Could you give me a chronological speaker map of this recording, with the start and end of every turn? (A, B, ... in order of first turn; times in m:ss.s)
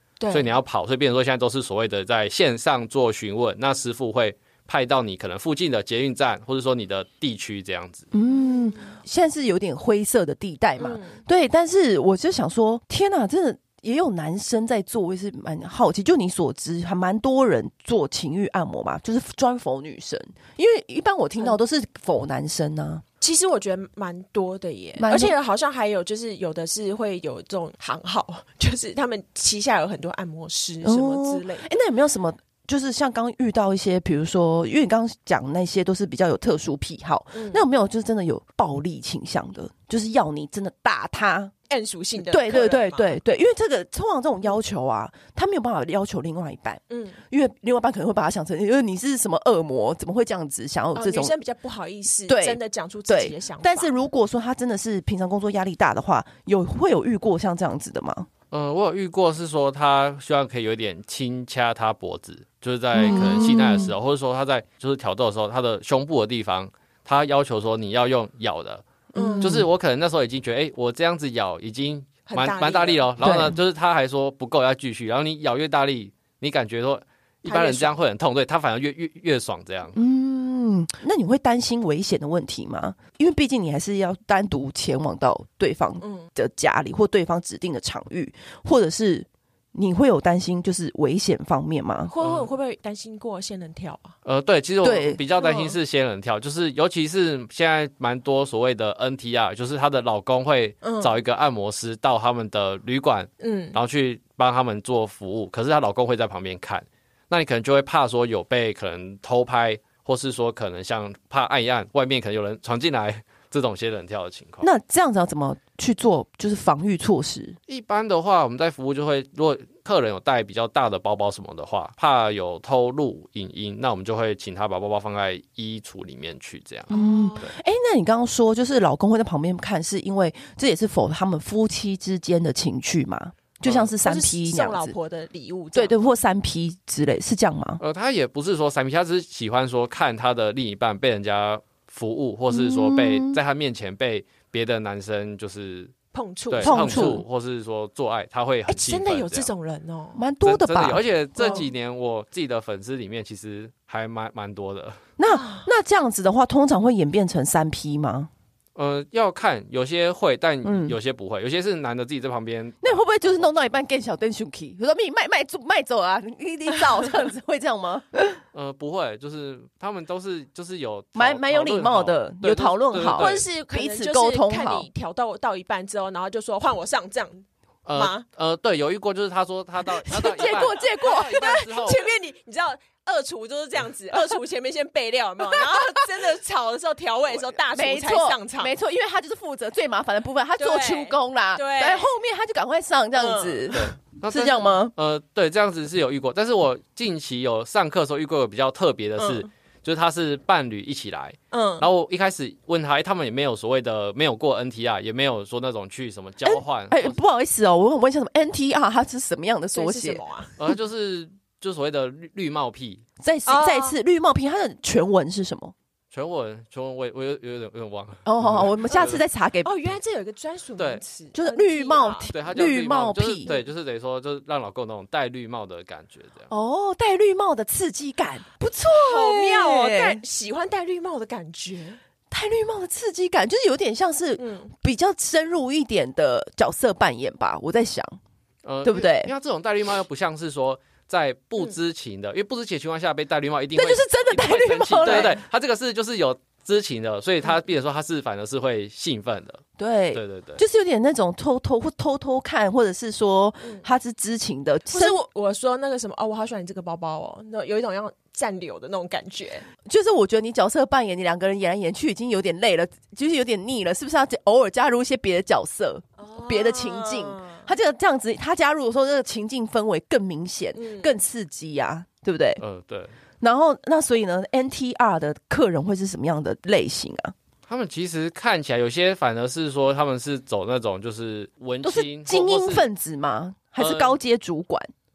0:00.2-0:00.5 A
0:00.3-0:08.1 B
0:08.1-0:23.0 C
0:08.2-0:08.9 A
0:10.8-0:11.2 A
0:23.2-0:31.7 A
0:25.0-0:25.3 C
0:30.8-0:41.5 C
0:37.3-0:37.6 A
0:41.7-0:43.2 A
0:42.2-0:51.3 C
0:46.9-0:47.2 A
0:50.9-0:53.9 A
0:52.3-0:58.3 C
0:58.5-1:08.8 B
1:02.9-1:03.9 C
1:09.1-1:09.7 C
1:09.1-1:09.6 A
1:09.4-1:20.0 B
1:12.3-1:13.1 A
1:13.2-1:13.6 C
1:17.4-1:18.0 A
1:19.9-1:32.1 C
1:26.0-1:26.3 A
1:32.1-1:34.1 A
1:32.2-1:32.5 B
1:34.2-1:54.7 B
1:34.8-1:35.2 C
1:35.4-1:35.8 A
1:40.8-1:41.1 A
1:43.4-1:43.8 A
1:54.6-1:57.6 C
1:57.7-2:06.9 B
2:06.9-2:07.5 A
2:06.9-2:14.9 C
2:13.6-2:13.9 B
2:14.0-2:16.0 A
2:15.7-2:17.8 C
2:17.8-2:25.9 B
2:22.5-2:23.4 C
2:26.1-2:27.2 A
2:26.5-2:29.5 B
2:26.6-2:27.2 C
2:28.7-2:30.2 A
2:30.2-2:31.6 C
2:30.4-2:35.0 B
2:35.2-2:38.3 C
2:35.3-2:35.7 A
2:38.8-2:43.5 B
2:40.6-2:41.0 C
2:42.8-2:48.4 C
2:48.5-2:53.4 B
2:51.2-2:54.9 C
2:53.1-2:58.2 A
2:57.8-3:02.0 B
3:00.0-3:08.7 A
3:00.1-3:01.5 C
3:05.6-3:05.9 C
3:07.7-3:14.9 C
3:10.6-3:12.1 A
3:13.2-3:13.8 A
3:13.7-3:27.2 B
3:19.2-3:19.5 A
3:21.5-3:21.9 A
3:26.4-3:30.2 C
3:29.7-3:30.6 A
3:30.6-3:33.0 B
3:33.2-3:35.7 C
3:33.4-3:34.0 A
3:36.1-3:39.2 B
3:38.2-3:39.7 C
3:39.6-3:42.3 A
3:41.3-3:43.5 C
3:42.3-3:46.5 B
3:46.5-3:50.2 C
3:48.9-3:52.0 A
3:52.3-3:58.2 C
3:54.4-3:54.7 A
3:58.6-4:09.6 B
3:58.8-3:59.3 C
4:03.7-4:05.4 C
4:05.0-4:05.3 A
4:09.8-4:15.2 C
4:10.1-4:10.6 B
4:14.9-4:19.6 A
4:19.8-4:32.6 C
4:26.2-4:27.6 A
4:30.7-4:31.2 A
4:32.6-4:33.1 B
4:33.4-4:37.3 C
4:37.7-4:42.8 B
4:41.8-4:44.9 C
4:43.8-4:44.2 B